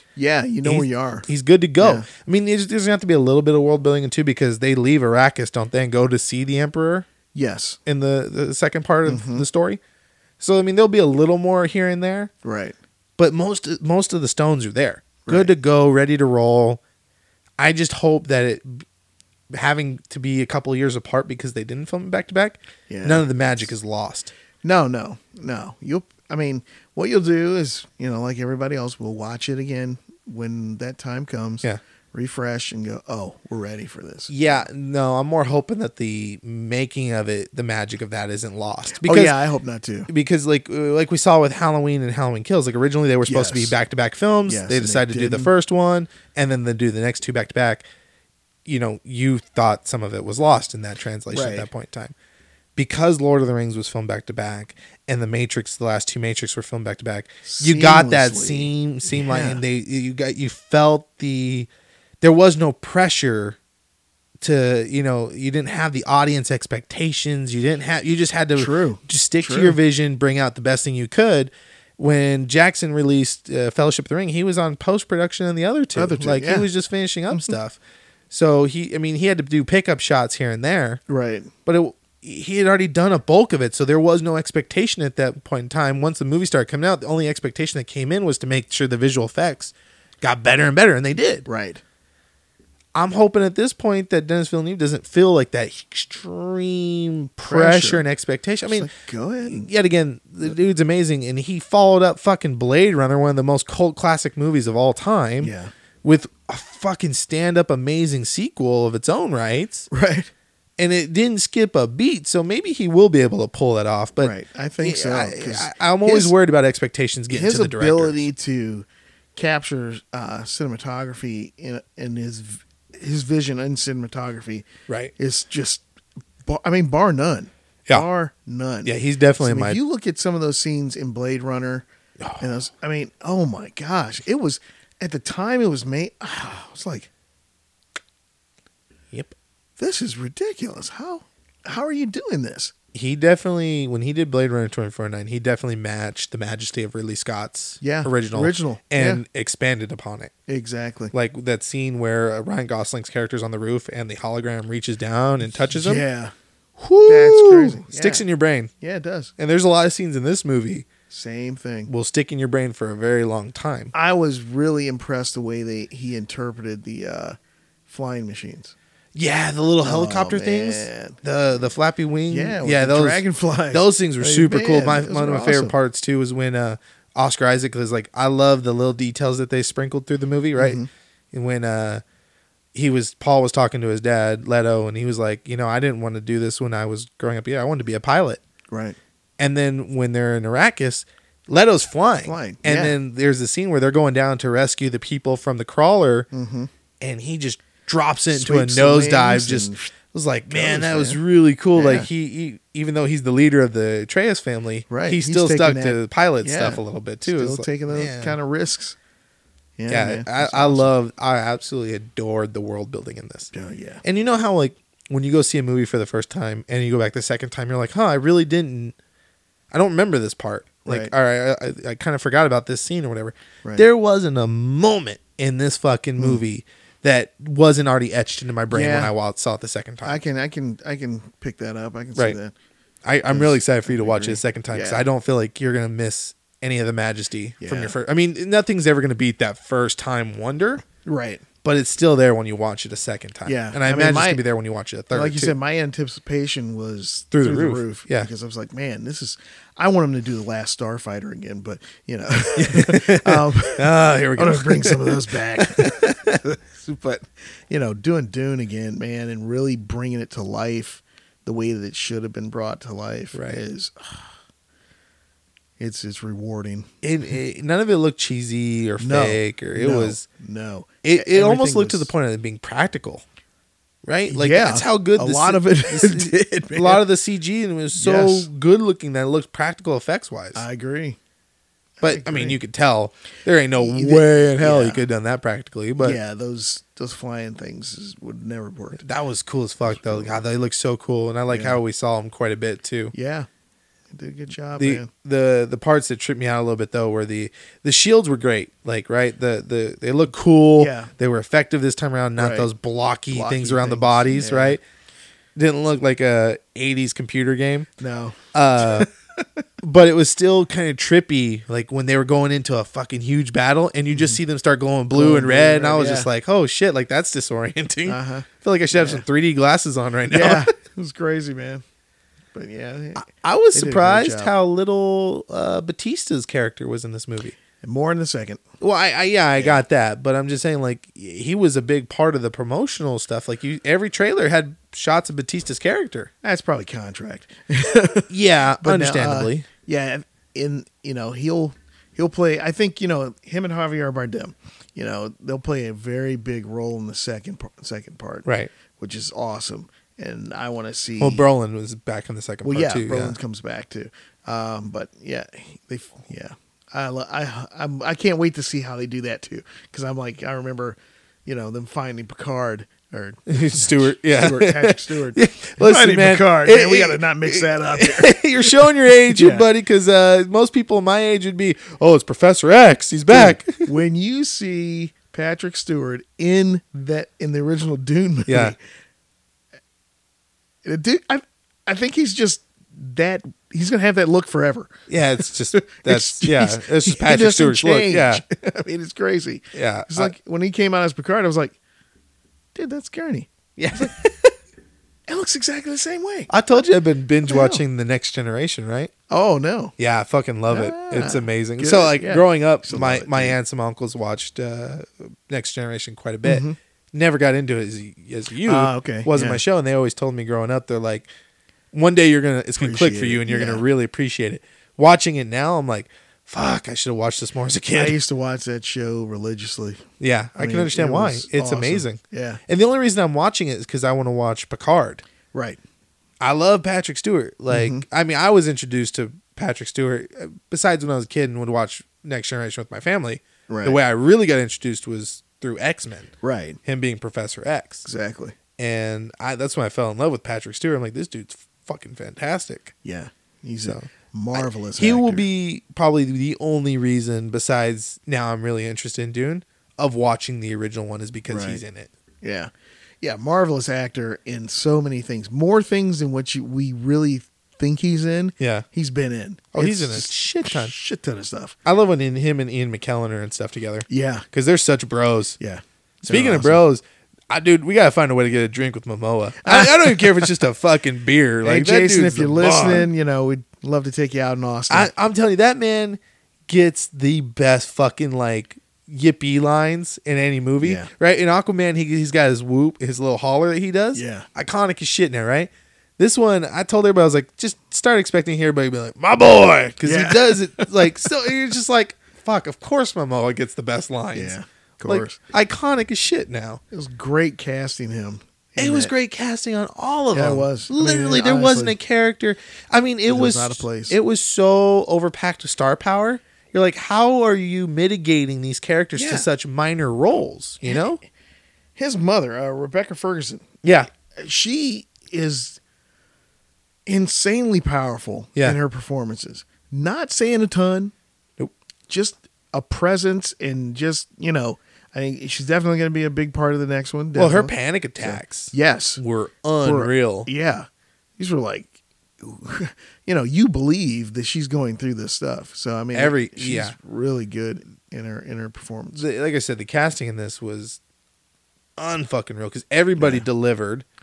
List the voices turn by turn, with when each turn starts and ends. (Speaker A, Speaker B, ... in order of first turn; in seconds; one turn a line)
Speaker A: 0.1-1.3
Speaker B: 0.6-7.1
Speaker A: 1.8-2.1
Speaker A: 7.3-7.8
Speaker B: 7.8-9.8
Speaker A: 9.1-9.4
Speaker B: 10.4-12.3
Speaker A: 12.4-12.7
Speaker B: 13.2-16.8
Speaker A: 15.2-15.5
Speaker B: 17.6-18.8
Speaker B: 19.5-24.3
Speaker A: 22.9-23.2
Speaker A: 24.6-34.6
Speaker B: 34.3-39.4
Speaker A: 38.9-40.1
Speaker B: 40.1-47.8
Speaker A: 43.2-43.8
Speaker A: 44.5-45.5
Speaker B: 48.6-52.1
Speaker A: 51.3-51.7
Speaker B: 52.8-61.7
Speaker A: 57.4-59.6
Speaker B: 62.2-63.6
Speaker B: 64.4-77.8
Speaker A: 68.5-69.8
Speaker A: 75.9-76.7
Speaker B: 78.3-81.0
Speaker A: 81.1-81.5
Speaker B: 81.7-91.5
Speaker A: 91.5-91.8
Speaker B: 92.9-98.9
Speaker A: 97.4-98.0
Speaker A: 98.7-99.7
Speaker B: 99.4-109.9
Speaker A: 105.4-105.7
Speaker A: 109.9-110.3
Speaker B: 110.8-118.2
Speaker A: 114.2-116.3
Speaker A: 117.3-124.7
Speaker B: 124.9-125.1
Speaker A: 125.2-125.8
Speaker A: 126.4-131.8
Speaker B: 128.8-129.8
Speaker B: 132.2-132.5
Speaker A: 132.4-137.1
Speaker A: 139.8-142.7
Speaker B: 142.9-150.3
Speaker A: 147.8-149.2
Speaker A: 150.5-151.1
Speaker B: 151.1-156.0
Speaker A: 155.7-156.3
Speaker B: 156.8-158.7
Speaker A: 157.1-158.2
Speaker A: 158.8-159.3
Speaker B: 159.4-160.9
Speaker A: 161.1-161.9
Speaker B: 161.9-163.9
Speaker A: 163.9-167.3
Speaker A: 167.9-168.7
Speaker B: 169.1-182.0
Speaker A: 169.8-171.7
Speaker A: 172.3-175.7
Speaker A: 180.6-180.9
Speaker B: 182.7-188.4
Speaker A: 188.7-189.0
Speaker B: 189.4-196.3
Speaker A: 192.2-192.9
Speaker A: 196.3-196.7
Speaker B: 197.0-208.4
Speaker A: 198.3-199.9
Speaker A: 200.5-201.2
Speaker A: 201.7-202.1
Speaker A: 204.9-209.0
Speaker A: 209.8-210.9
Speaker B: 209.9-213.5
Speaker A: 213.5-214.0
Speaker B: 214.0-218.9
Speaker B: 219.7-230.2
Speaker A: 220.8-221.1
Speaker A: 228.7-229.1
Speaker A: 230.0-232.5
Speaker B: 233.0-240.8
Speaker A: 233.3-235.1
Speaker A: 237.6-237.9
Speaker A: 241.0-241.4
Speaker B: 241.6-245.5
Speaker A: 243.4-244.4
Speaker A: 245.1-264.3
Speaker B: 247.3-248.3
Speaker B: 252.5-256.4
Speaker B: 263.3-263.6
Speaker A: 265.8-266.9
Speaker B: 267.0-270.2
Speaker A: 269.0-272.1
Speaker B: 271.0-273.2
Speaker B: 274.0-280.6
Speaker A: 274.3-277.0
Speaker A: 277.9-278.5
Speaker A: 280.5-281.2
Speaker A: 282.0-282.6
Speaker B: 282.0-286.2
Speaker A: 283.8-285.1
Speaker A: 286.0-289.0
Speaker B: 289.0-293.1
Speaker A: 289.8-290.4
Speaker A: 291.5-291.8
Speaker A: 293.1-293.5
Speaker A: 294.1-295.1
Speaker B: 294.8-304.8
Speaker A: 300.8-301.1
Speaker A: 302.4-302.7
Speaker A: 303.3-304.8
Speaker B: 305.6-307.9
Speaker A: 308.0-309.6
Speaker B: 308.5-309.1
Speaker B: 309.8-320.7
Speaker A: 314.1-314.4
Speaker A: 315.1-316.3
Speaker A: 318.1-319.2
Speaker A: 320.3-321.8
Speaker A: 322.5-324.5
Speaker B: 323.2-327.5
Speaker A: 327.8-328.6
Speaker B: 328.8-336.3
Speaker A: 329.6-329.8
Speaker A: 336.4-338.3
Speaker B: 338.3-339.7
Speaker A: 338.8-348.4
Speaker B: 348.4-348.7
Speaker A: 349.0-351.4
Speaker B: 351.2-353.4
Speaker A: 352.6-369.7
Speaker B: 363.5-373.9
Speaker A: 373.3-378.8
Speaker B: 378.5-378.7
Speaker A: 380.8-385.0
Speaker B: 385.1-388.4
Speaker A: 385.7-391.8
Speaker B: 389.7-390.3
Speaker A: 392.7-394.1
Speaker B: 393.8-394.5
Speaker A: 395.3-396.5
Speaker B: 396.5-399.1
Speaker A: 397.5-397.8
Speaker A: 399.3-399.9
Speaker B: 400.0-411.3
Speaker A: 400.7-403.6
Speaker A: 406.4-406.8
Speaker A: 408.6-409.6
Speaker B: 411.9-418.2
Speaker A: 412.8-413.8
Speaker A: 417.9-422.6
Speaker B: 420.2-425.2
Speaker A: 425.5-425.8
Speaker B: 426.4-436.3
Speaker A: 427.7-428.0
Speaker A: 433.7-434.0
Speaker A: 436.4-436.8
Speaker B: 436.8-438.1
Speaker A: 438.0-438.6
Speaker B: 438.8-442.9
Speaker A: 443.0-445.4
Speaker B: 443.8-452.1
Speaker A: 451.5-451.8
Speaker A: 452.4-461.8
Speaker B: 458.6-458.9
Speaker B: 459.7-460.9
Speaker B: 461.8-465.6
Speaker A: 464.1-464.5
Speaker A: 465.6-466.8
Speaker B: 466.2-473.1
Speaker A: 469.6-470.5
Speaker A: 471.6-475.1
Speaker B: 474.9-496.8
Speaker A: 480.8-481.1
Speaker A: 484.1-484.5
Speaker A: 490.0-491.3
Speaker A: 494.3-495.4
Speaker A: 496.9-499.1
Speaker B: 498.8-511.2
Speaker A: 500.3-502.0
Speaker A: 503.3-504.1
Speaker A: 509.1-509.4
Speaker A: 511.9-513.7
Speaker B: 513.8-514.1
Speaker A: 514.2-515.8
Speaker A: 517.0-521.1
Speaker A: 522.1-529.2
Speaker B: 527.3-530.5
Speaker A: 529.8-539.2
Speaker B: 536.1-536.9
Speaker B: 539.1-541.0
Speaker B: 542.0-544.0
Speaker A: 543.2-543.5